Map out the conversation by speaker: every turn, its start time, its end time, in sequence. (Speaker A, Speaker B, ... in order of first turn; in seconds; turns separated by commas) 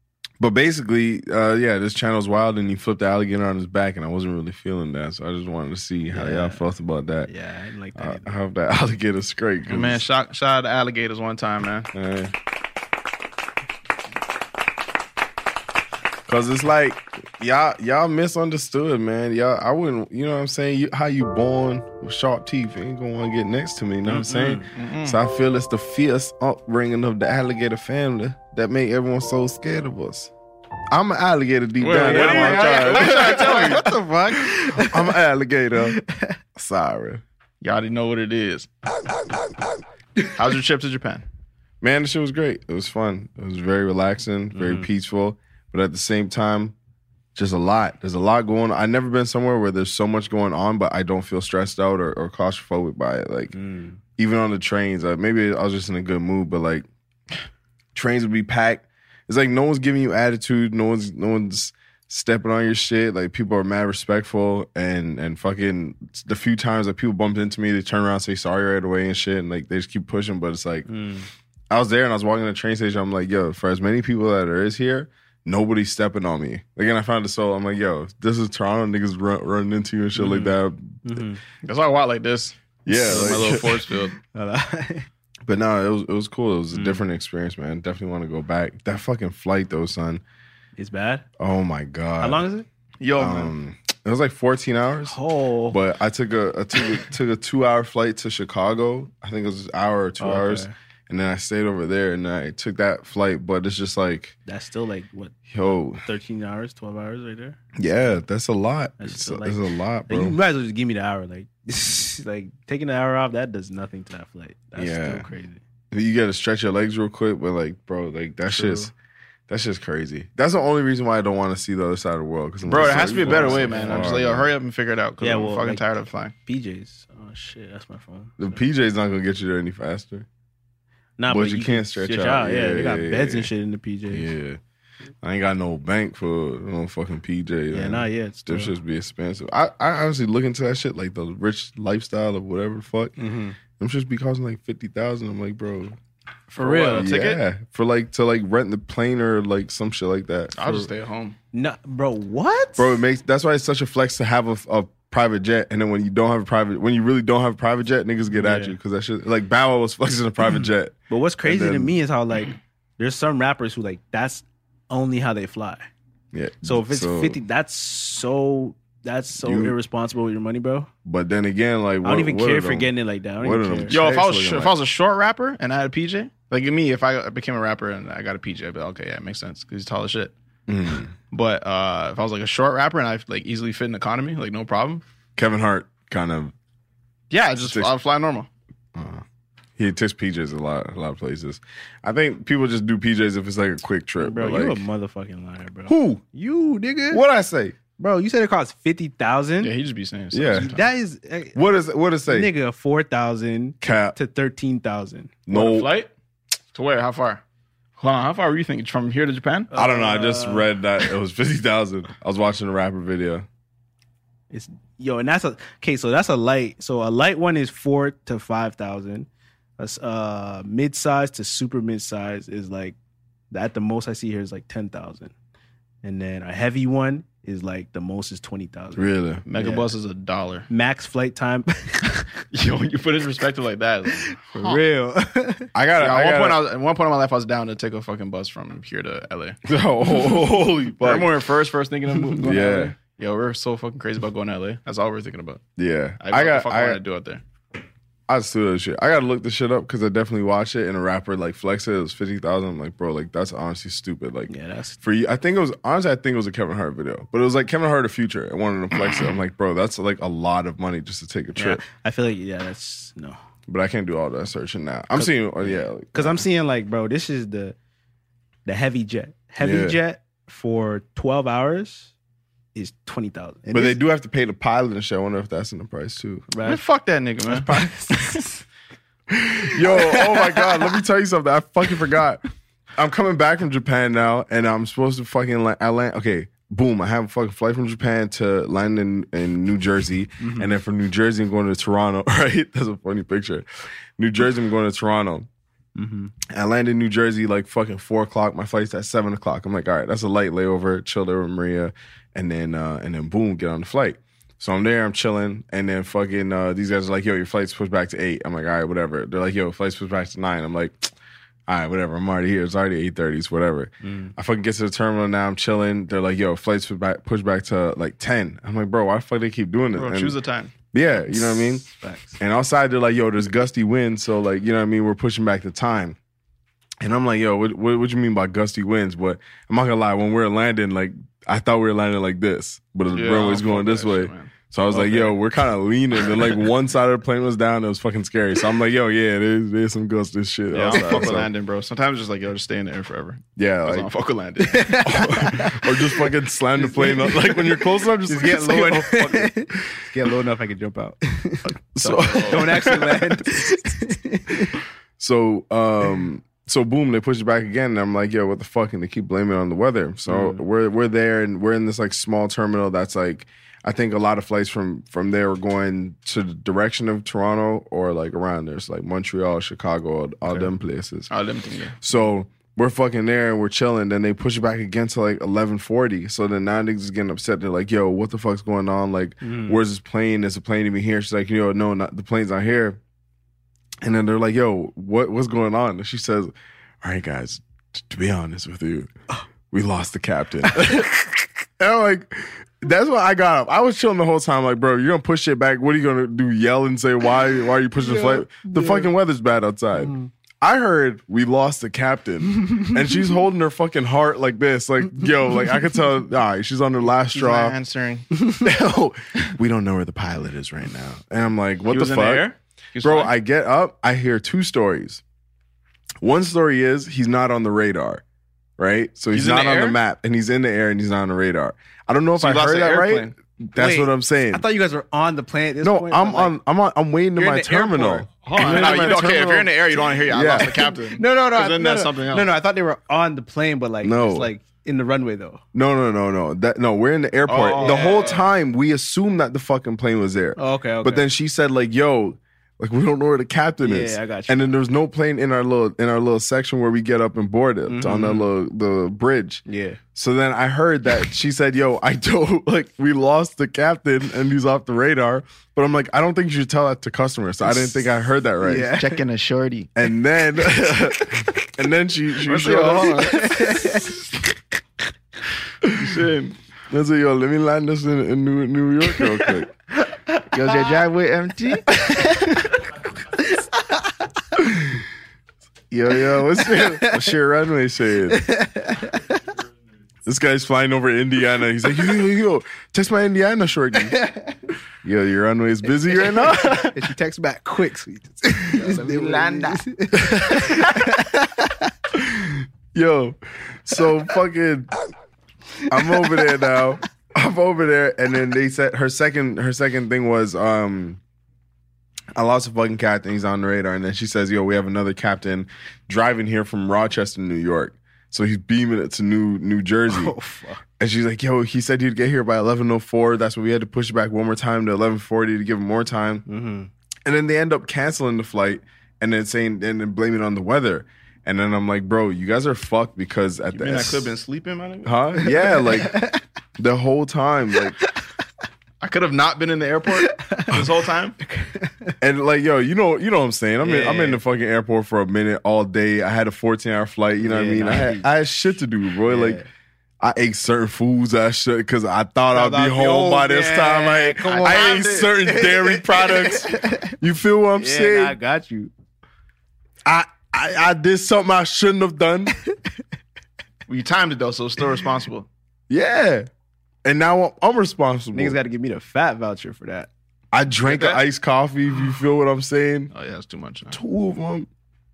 Speaker A: 0.4-7.3, Speaker B: 6.1-6.7, Speaker B: 7.3-8.3, Speaker A: 8.0-10.0, Speaker C: 9.7-11.9, Speaker A: 11.9-12.3, Speaker A: 16.3-30.3, Speaker C: 24.1-25.2, Speaker A: 30.9-36.0, Speaker C: 31.8-33.9, Speaker B: 32.0-35.1, Speaker B: 35.9-36.4, Speaker A: 36.5-37.2, Speaker C: 37.6-38.7, Speaker C: 40.2-41.2, Speaker A: 41.8-46.8, Speaker B: 44.5-44.9, Speaker A: 47.4-53.5, Speaker B: 53.5-54.0, Speaker A: 54.2-56.9, Speaker A: 58.0-70.9, Speaker B: 70.9-71.3, Speaker A: 71.7-81.2, Speaker B: 80.2-81.4, Speaker C: 81.6-84.2, Speaker A: 82.9-83.9, Speaker B: 84.3-85.1, Speaker A: 85.5-90.2, Speaker B: 86.7-87.0, Speaker B: 90.8-91.2, Speaker A: 91.4-92.5, Speaker B: 92.2-92.7, Speaker C: 93.0-93.5, Speaker A: 93.2-95.2, Speaker B: 95.1-95.8, Speaker A: 95.7-104.3, Speaker B: 100.2-100.7, Speaker B: 104.5-107.6, Speaker A: 105.5-106.0, Speaker A: 107.8-110.4, Speaker B: 109.0-115.6, Speaker A: 114.8-115.3, Speaker A: 115.9-118.9, Speaker B: 118.5-118.9, Speaker A: 119.5-124.5, Speaker C: 122.7-126.3, Speaker B: 122.7-124.1, Speaker B: 125.2-125.8, Speaker B: 126.5-128.6, Speaker A: 128.4-130.3, Speaker B: 131.2-134.3, Speaker A: 131.3-133.5, Speaker A: 134.1-134.6, Speaker A: 135.2-143.2, Speaker B: 137.7-138.8, Speaker B: 143.2-143.6, Speaker A: 143.8-146.0, Speaker C: 146.5-147.4, Speaker B: 146.6-147.1, Speaker A: 146.6-150.9, Speaker C: 150.6-151.4, Speaker B: 151.5-153.0, Speaker A: 152.8-161.9, Speaker B: 158.3-158.8, Speaker B: 161.1-165.9, Speaker A: 166.3-167.4, Speaker B: 166.6-170.9, Speaker A: 169.4-169.8, Speaker A: 171.1-174.8, Speaker B: 172.0-174.0, Speaker C: 173.9-180.3, Speaker A: 180.7-181.1, Speaker C: 181.3-185.0, Speaker A: 185.4-186.5, Speaker C: 187.3-188.5, Speaker A: 187.6-187.9, Speaker A: 188.9-189.2, Speaker A: 189.8-194.8, Speaker B: 194.2-197.2, Speaker A: 195.9-196.2, Speaker A: 197.1-197.8, Speaker B: 198.0-199.7, Speaker C: 199.6-200.8, Speaker A: 200.3-200.7, Speaker B: 200.5-201.6, Speaker A: 201.6-202.5, Speaker B: 202.3-205.3, Speaker A: 203.8-204.2, Speaker A: 205.5-205.9, Speaker C: 205.5-206.1, Speaker C: 206.7-207.4, Speaker C: 208.0-209.7, Speaker B: 209.7-210.7, Speaker A: 209.8-213.5, Speaker B: 214.5-223.0, Speaker B: 223.5-225.3, Speaker B: 226.0-229.9, Speaker A: 229.0-229.4, Speaker C: 229.5-230.7, Speaker B: 230.7-232.3, Speaker C: 232.5-234.8, Speaker B: 234.3-235.7, Speaker A: 235.7-236.6, Speaker C: 236.0-239.6, Speaker A: 239.7-241.3, Speaker C: 241.0-245.6, Speaker A: 242.4-242.9, Speaker A: 245.8-247.0, Speaker C: 246.2-247.4, Speaker A: 248.3-261.8, Speaker B: 254.5-255.0, Speaker B: 261.6-263.4, Speaker A: 263.7-266.4, Speaker B: 265.1-267.8, Speaker B: 268.7-272.1, Speaker A: 269.6-270.0, Speaker B: 272.8-274.0, Speaker A: 273.7-276.5, Speaker B: 276.5-276.8, Speaker C: 276.6-277.7, Speaker B: 277.5-278.6, Speaker A: 279.3-282.4, Speaker B: 279.9-280.9, Speaker A: 283.0-295.5, Speaker B: 290.4-290.7, Speaker B: 296.0-296.3, Speaker A: 296.5-311.1, Speaker A: 311.7-320.4, Speaker B: 314.0-314.3, Speaker C: 319.9-320.7, Speaker A: 320.9-321.9, Speaker B: 321.9-322.4, Speaker A: 322.4-326.2, Speaker A: 327.0-341.5, Speaker C: 333.1-335.3, Speaker C: 340.7-345.3, Speaker A: 343.6-344.1, Speaker B: 344.6-346.0, Speaker A: 345.1-349.6, Speaker B: 346.8-351.7, Speaker A: 351.9-353.3, Speaker C: 352.0-353.0, Speaker B: 352.5-354.8, Speaker A: 355.2-371.3, Speaker B: 360.3-360.6, Speaker C: 371.3-372.0, Speaker A: 372.0-383.0, Speaker B: 379.4-379.8, Speaker A: 384.0-389.1, Speaker A: 389.7-407.8, Speaker B: 398.0-399.1, Speaker C: 407.3-408.3, Speaker A: 408.6-412.5, Speaker C: 411.9-413.3, Speaker A: 413.0-415.2, Speaker A: 416.2-418.2, Speaker A: 418.8-424.6, Speaker C: 419.3-420.0, Speaker C: 422.4-423.4, Speaker B: 423.8-426.6, Speaker A: 425.8-430.9, Speaker B: 427.4-429.2, Speaker C: 428.5-432.5, Speaker B: 430.6-435.6, Speaker A: 434.0-434.5, Speaker A: 435.7-449.6, Speaker C: 437.5-438.5, Speaker B: 437.8-438.4, Speaker B: 440.6-441.3, Speaker B: 443.8-444.8, Speaker B: 447.9-448.5, Speaker B: 449.7-450.0, Speaker A: 450.1-459.0, Speaker B: 458.6-459.2, Speaker C: 459.0-459.9, Speaker A: 460.0-463.4, Speaker C: 462.4-464.1, Speaker B: 463.2-464.1, Speaker A: 465.8-466.1, Speaker C: 465.8-466.6, Speaker A: 466.9-469.7, Speaker C: 470.5-471.9, Speaker B: 472.0-472.8, Speaker B: 473.3-474.1, Speaker A: 474.6-475.1, Speaker A: 475.9-478.5, Speaker B: 476.5-477.3, Speaker B: 478.3-479.4, Speaker A: 480.3-484.2, Speaker B: 484.2-484.6, Speaker A: 485.0-487.1, Speaker B: 486.1-491.8, Speaker C: 488.8-489.8, Speaker A: 490.2-491.1, Speaker A: 492.1-494.9, Speaker A: 495.9-501.2, Speaker B: 495.9-496.5, Speaker A: 502.4-510.3, Speaker B: 510.1-510.8, Speaker A: 511.0-516.5, Speaker B: 516.5-516.9, Speaker A: 517.3-524.4, Speaker C: 523.7-525.4, Speaker A: 525.0-528.0, Speaker B: 525.5-526.4, Speaker C: 529.0-531.4, Speaker B: 530.2-530.8, Speaker B: 531.4-532.2, Speaker A: 532.2-539.6, Speaker B: 533.8-534.4, Speaker B: 537.4-538.3, Speaker B: 539.3-539.7, Speaker A: 540.2-548.4, Speaker B: 542.5-547.1, Speaker C: 544.4-545.3, Speaker B: 547.8-548.9, Speaker A: 550.0-552.6, Speaker C: 553.9-555.5, Speaker A: 555.9-556.5, Speaker A: 557.0-558.6, Speaker B: 558.3-560.1, Speaker A: 560.5-563.1, Speaker C: 560.9-561.2, Speaker C: 563.1-564.0, Speaker A: 563.9-564.7